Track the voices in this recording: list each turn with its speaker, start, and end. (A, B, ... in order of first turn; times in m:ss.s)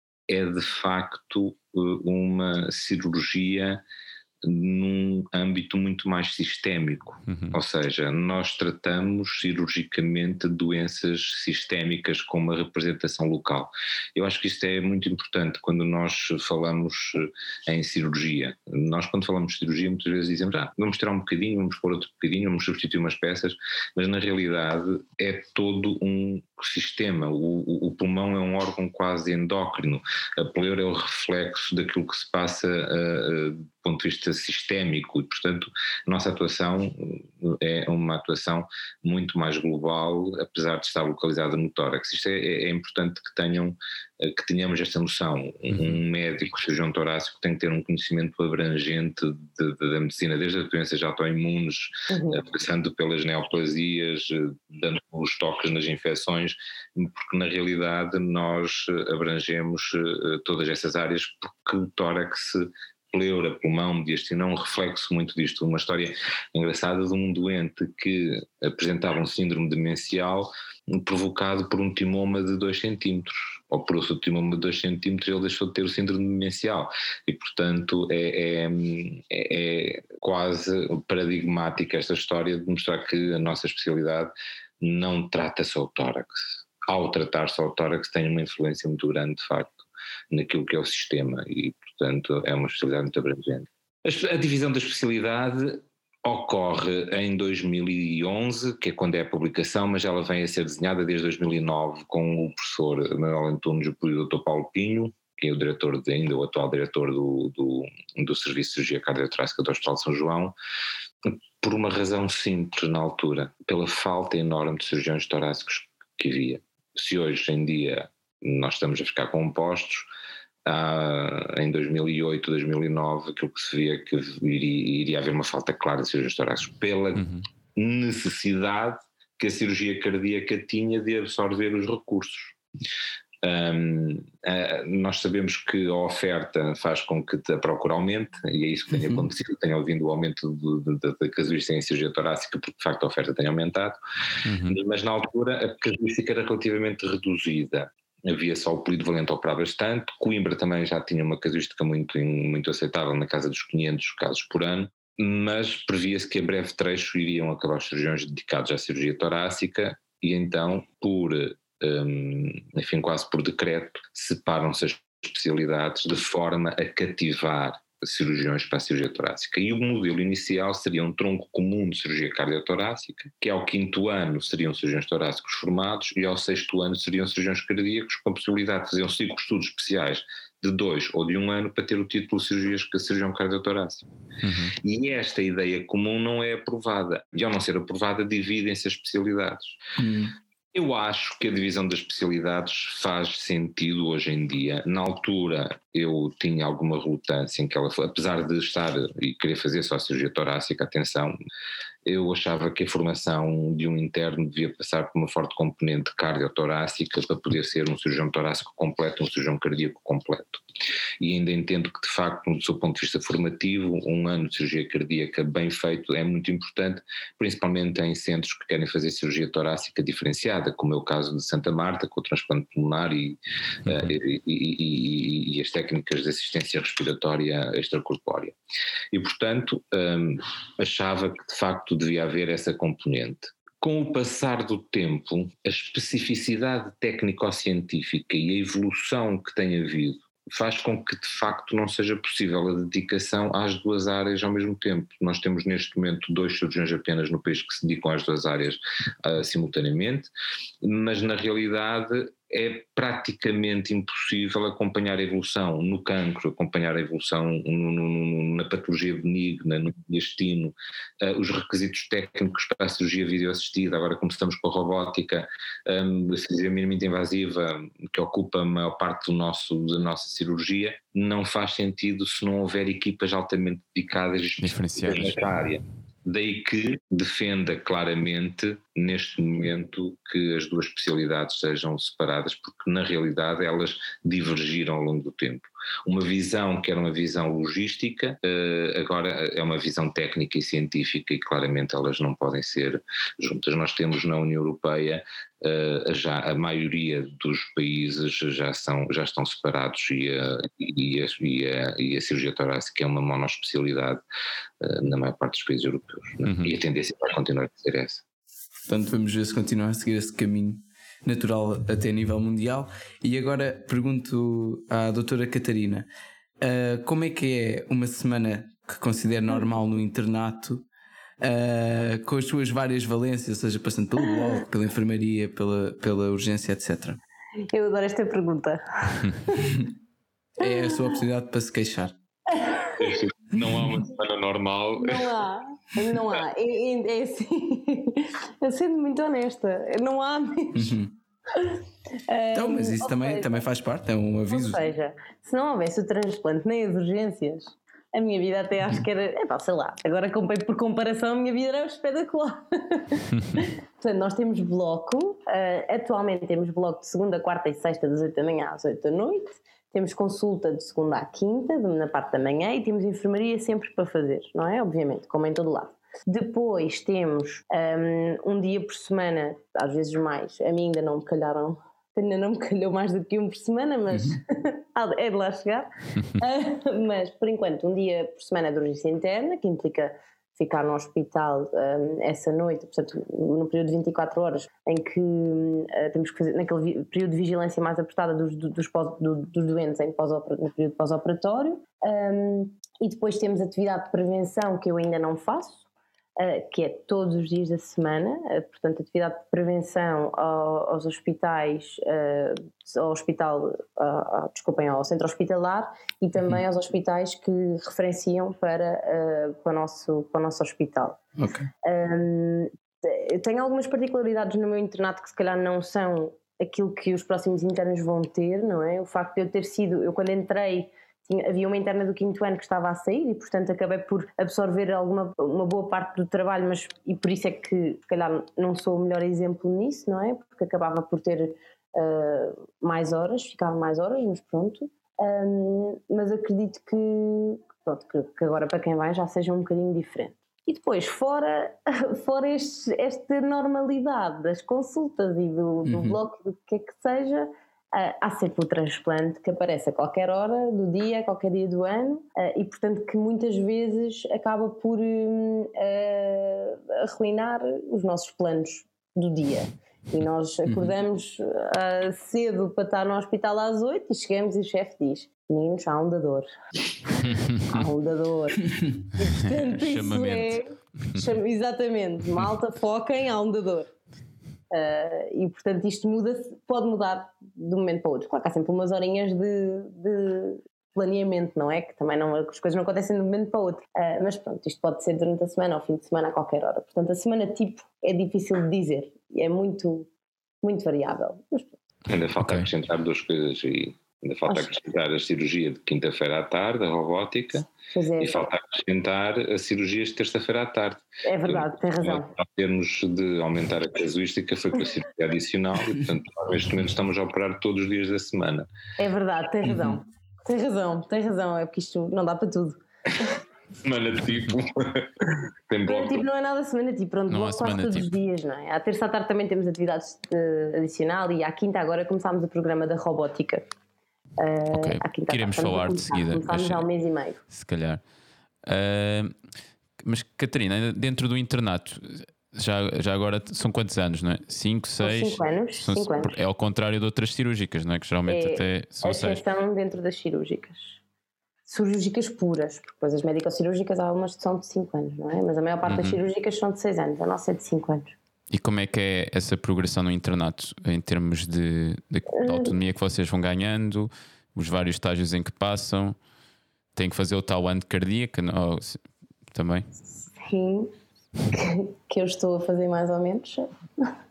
0:00.3-0:03.8 A
0:04.4-1:50.5 A
0:07.3-0:07.6 B
0:52.1-0:52.4 C
1:51.2-2:00.1 A
2:00.6-2:12.6 A
2:07.2-2:07.4 B
2:13.4-2:24.0 A
2:24.4-2:24.8 B
2:24.7-3:04.0 A
3:04.4-3:04.8 B
3:04.8-3:09.8 A
3:10.0-3:10.3 D
3:10.7-3:21.3 A
3:22.0-3:30.6 A
3:31.2-3:48.6 A
3:43.9-3:44.1 B
3:49.1-4:10.3 A
4:10.8-5:04.2 A
4:34.6-4:35.4 B
5:04.8-5:08.2 A
5:06.4-5:06.7 B
5:08.9-5:16.1 D
5:16.6-5:20.8 D
5:21.4-5:27.2 D
5:27.7-5:29.8 C
5:30.6-5:32.1 D
5:30.7-5:31.0 C
5:32.5-5:33.0 C
5:33.0-5:35.3 A
5:35.0-5:40.9 C
5:40.7-5:41.1 D
5:41.5-5:43.6 C
5:42.5-5:44.8 D
5:44.5-6:35.8 C
6:14.1-6:14.4 D
6:36.4-6:51.2 C
6:51.4-6:51.7 D
6:51.8-7:46.5 C
7:25.8-7:26.2 D
7:40.6-7:40.9 D
7:47.2-7:47.6 B
7:47.7-7:53.9 C
7:49.4-7:50.6 B
7:54.7-8:10.1 C
8:10.6-8:11.7 C
8:12.1-8:17.7 A
8:12.4-8:12.7 B
8:17.9-8:18.5 C
8:18.2-8:28.7 A
8:21.2-8:22.3 C
8:29.0-8:32.8 C
8:29.6-8:30.0 D
8:33.8-8:36.2 A
8:35.9-8:43.6 C
8:37.3-8:38.1 B
8:44.4-8:47.4 C
8:44.7-8:46.8 B
8:47.5-8:48.0 B
8:48.6-8:49.4 B
8:50.0-8:59.4 B
8:55.0-8:56.4 C
8:58.3-9:01.0 C
9:01.7-9:08.2 C
9:05.8-9:06.2 B
9:08.5-9:16.2 B
9:12.4-9:12.7 C
9:16.9-9:19.8 B
9:20.3-9:20.9 C
9:21.5-9:24.1 C